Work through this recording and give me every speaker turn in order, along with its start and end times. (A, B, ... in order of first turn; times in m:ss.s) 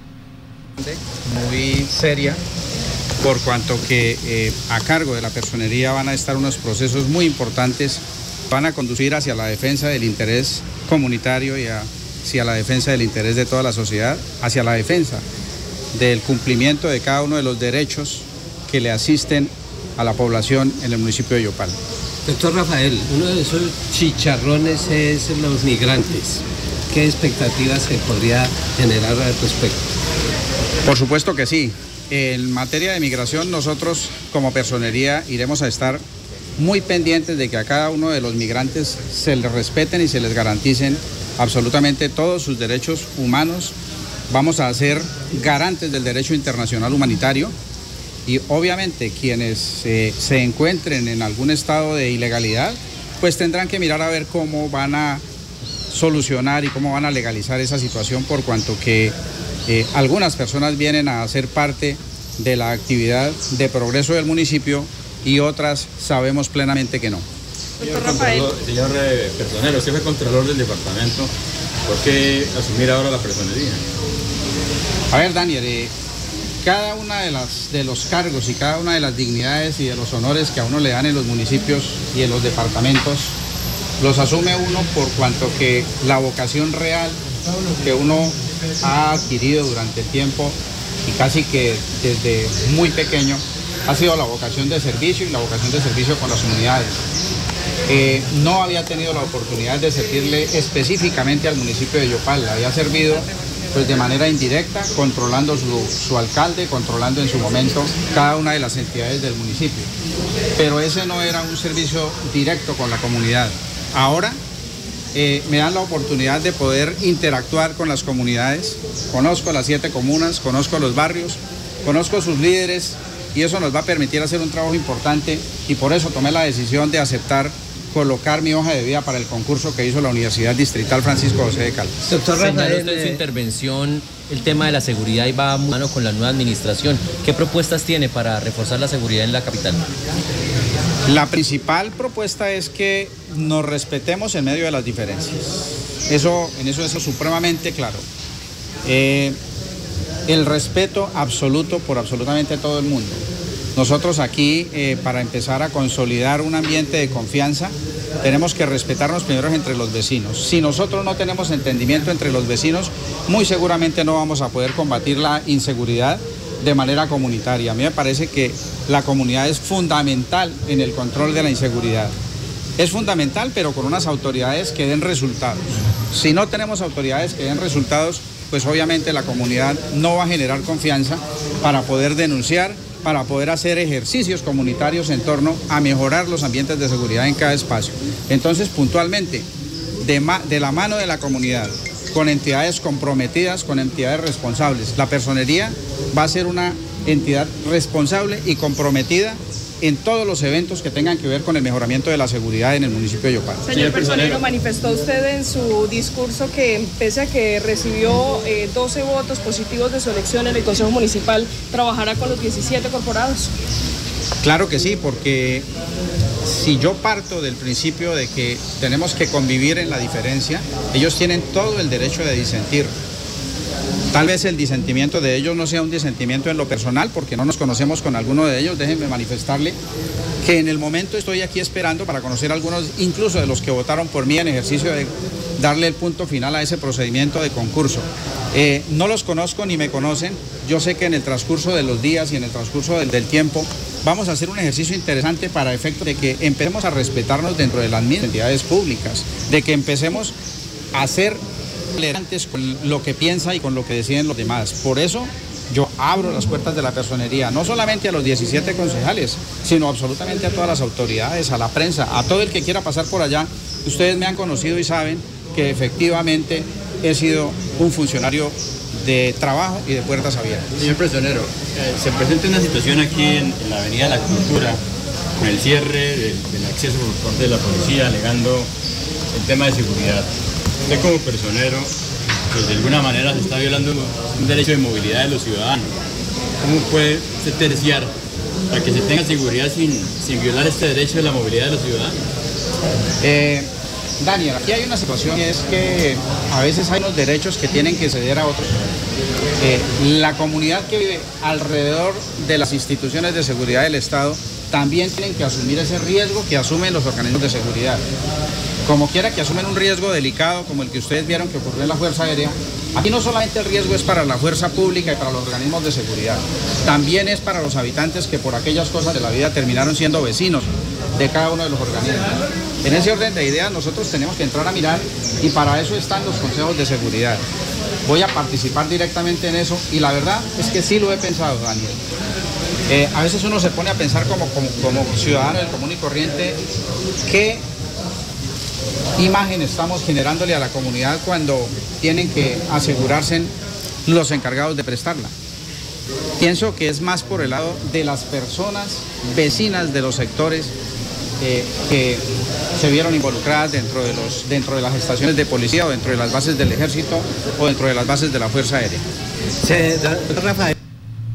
0:00.8-0:02.4 A
0:03.2-0:15.2 A
0:15.9-0:21.8 A
0:22.2-0:29.8 B
0:30.8-0:36.0 A
0:36.6-0:43.7 A
0:44.3-0:47.5 A
0:48.2-0:55.2 A
0:55.9-0:59.1 A
0:59.7-1:07.2 A
1:07.8-1:08.5 C
1:07.8-1:11.3 D
1:11.8-1:13.8 D
1:15.1-1:15.9 A
1:16.6-1:23.3 A
1:24.0-1:27.2 A
1:27.8-1:37.0 A
1:37.9-1:49.9 A
1:50.6-1:54.4 A
1:55.1-2:11.9 A
2:12.0-2:13.2 B
2:12.4-2:19.8 E
2:21.1-2:28.0 A
2:28.8-2:29.4 A
2:30.3-2:33.2 A
2:33.7-2:52.1 A
2:52.8-3:09.5 A
3:10.0-3:23.6 A
3:23.6-3:33.5 C
3:23.7-3:24.4 D
3:34.4-3:35.6 A
3:36.4-3:42.9 A
3:44.1-3:49.8 A
3:50.4-4:10.3 A
4:10.9-4:11.4 A
4:11.9-4:30.7 A
4:30.8-4:34.8 D
4:35.4-4:38.7 D
4:39.3-4:40.3 D
4:40.9-4:41.9 D
4:42.5-4:45.9 D
4:46.6-4:48.1 D
4:48.7-4:52.2 D
4:53.2-4:53.7 A
4:54.2-4:58.8 A
4:59.6-5:08.0 A
5:08.8-5:27.4 A
5:28.0-5:32.0 A
5:32.9-5:36.6 A
5:37.2-5:37.6 A
5:39.2-5:43.5 A
5:44.0-5:45.3 A
5:46.4-5:50.7 A
5:51.4-5:52.2 A
5:52.8-5:59.0 A
5:59.6-6:00.8 B